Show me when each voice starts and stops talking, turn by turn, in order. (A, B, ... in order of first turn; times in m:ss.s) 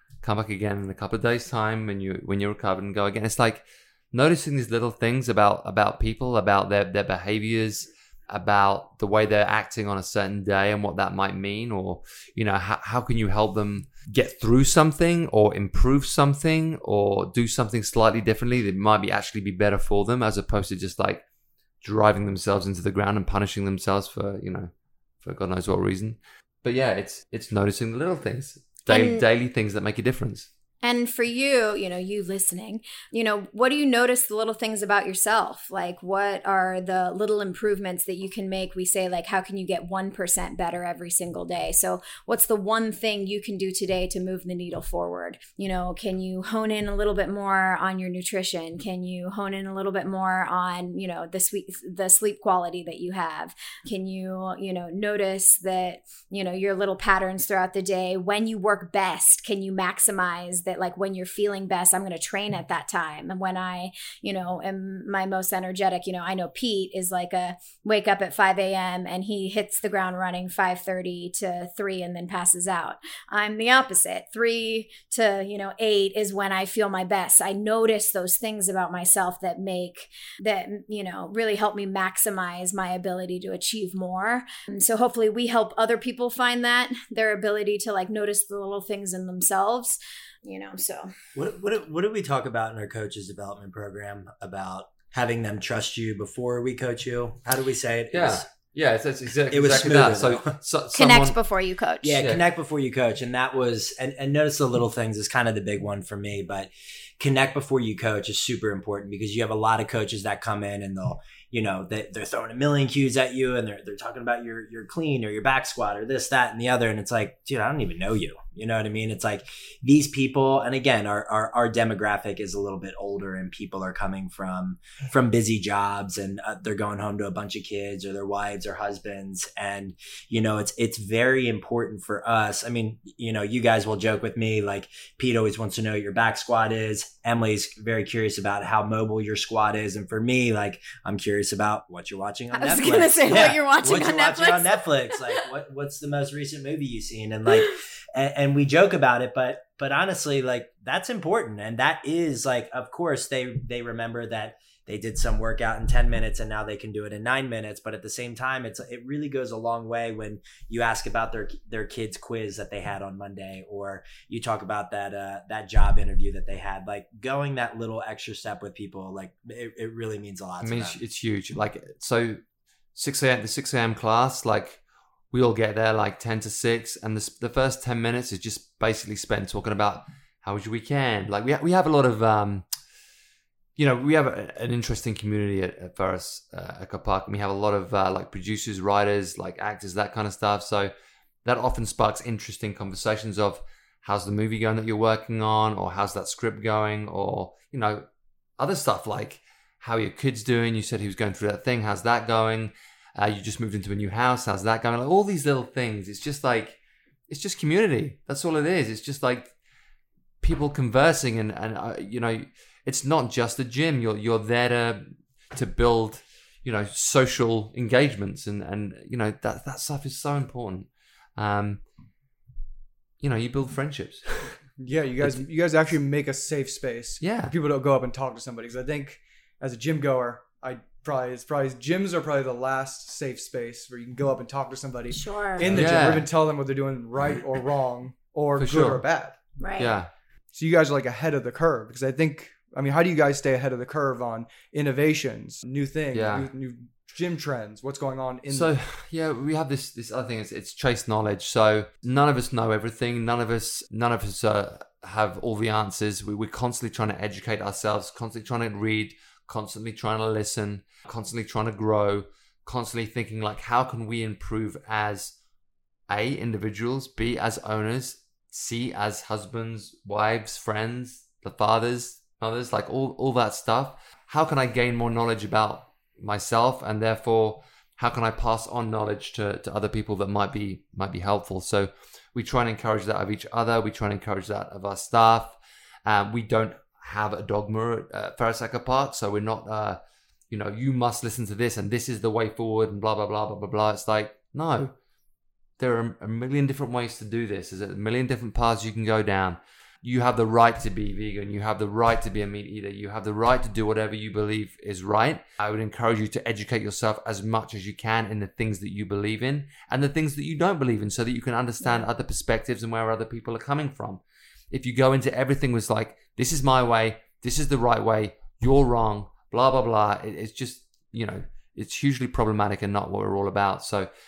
0:00.2-0:21.2 A
0:21.8-0:24.7 A
0:25.2-0:30.5 A
0:28.9-0:29.2 B
0:30.8-1:31.1 B
1:31.4-1:38.5 C
1:38.1-1:41.4 A
1:39.5-1:40.6 C
1:40.9-1:42.2 B
1:42.0-2:51.0 C
2:22.5-2:25.4 B
2:50.6-2:52.4 A
2:53.0-3:02.7 A
3:03.8-3:10.9 A
3:11.4-3:18.0 A
3:18.6-3:26.8 A
3:27.3-3:29.5 A
3:30.4-3:41.8 A
3:43.2-3:44.6 A
3:44.8-3:59.4 D
3:47.2-3:47.5 A
3:55.1-3:55.8 B
3:55.7-3:56.3 A
3:58.6-3:59.0 A
3:59.6-4:00.0 B
3:59.8-4:00.1 A
4:00.5-4:08.7 D
4:06.1-4:06.5 A
4:08.5-4:25.4 A
4:26.1-4:55.0 A
4:55.8-5:24.1 A